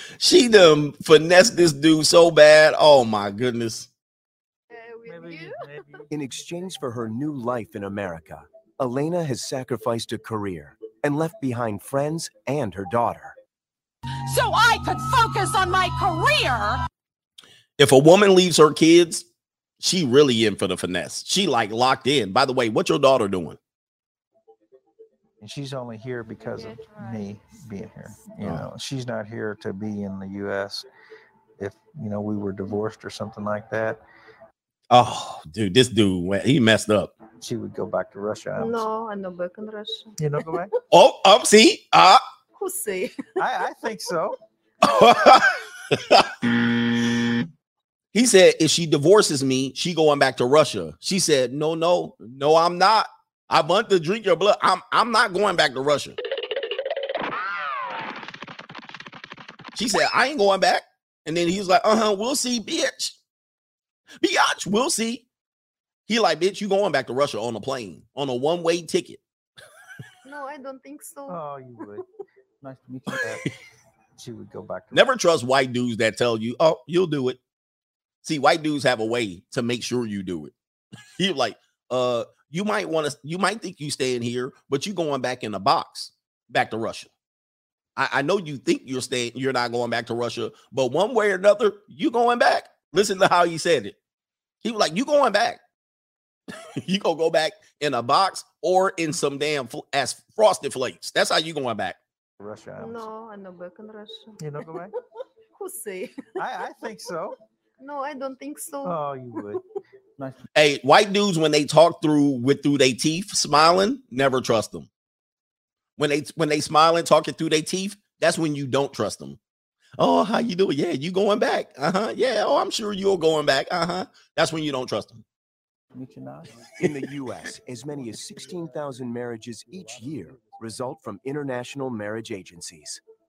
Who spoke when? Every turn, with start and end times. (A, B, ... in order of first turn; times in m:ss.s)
0:00.2-0:03.9 A
0:04.7-0:05.7 B
0:05.0-0:06.7 C
0:06.1-0:13.4 D
0:14.3-0:16.8 E
0:17.8-0:19.2 A
0:19.8-0:23.6 A
0:25.4-0:30.9 C
0:26.6-0:27.3 B
0:31.6-0:34.0 C
0:34.9-0:37.1 A
0:37.4-0:38.9 C
0:38.6-0:40.5 B
0:40.2-0:40.7 C
0:40.9-0:42.2 A
0:42.5-0:43.3 B
0:43.4-0:44.4 C
0:44.8-0:46.4 A
0:48.1-0:56.2 A
0:59.7-1:03.2 A
1:04.2-1:05.3 A
1:06.1-1:09.2 A
1:10.2-1:11.4 B
1:11.3-1:12.1 C
1:12.6-1:13.5 C
1:14.2-1:15.1 C
1:14.9-1:17.4 A
1:18.2-1:20.5 A
1:21.2-1:27.1 A
1:28.0-1:34.0 A
1:34.6-1:35.6 A
1:36.8-1:42.0 A
1:42.4-1:43.1 C
1:42.8-1:44.9 B
1:44.4-1:44.9 C
1:45.6-1:46.7 B
1:46.4-1:47.4 C
1:47.8-1:49.6 B
1:48.8-1:49.6 C
1:50.5-1:54.9 A
1:56.0-1:59.4 A
2:00.0-2:05.2 A
2:05.9-2:06.5 C
2:06.7-2:13.0 D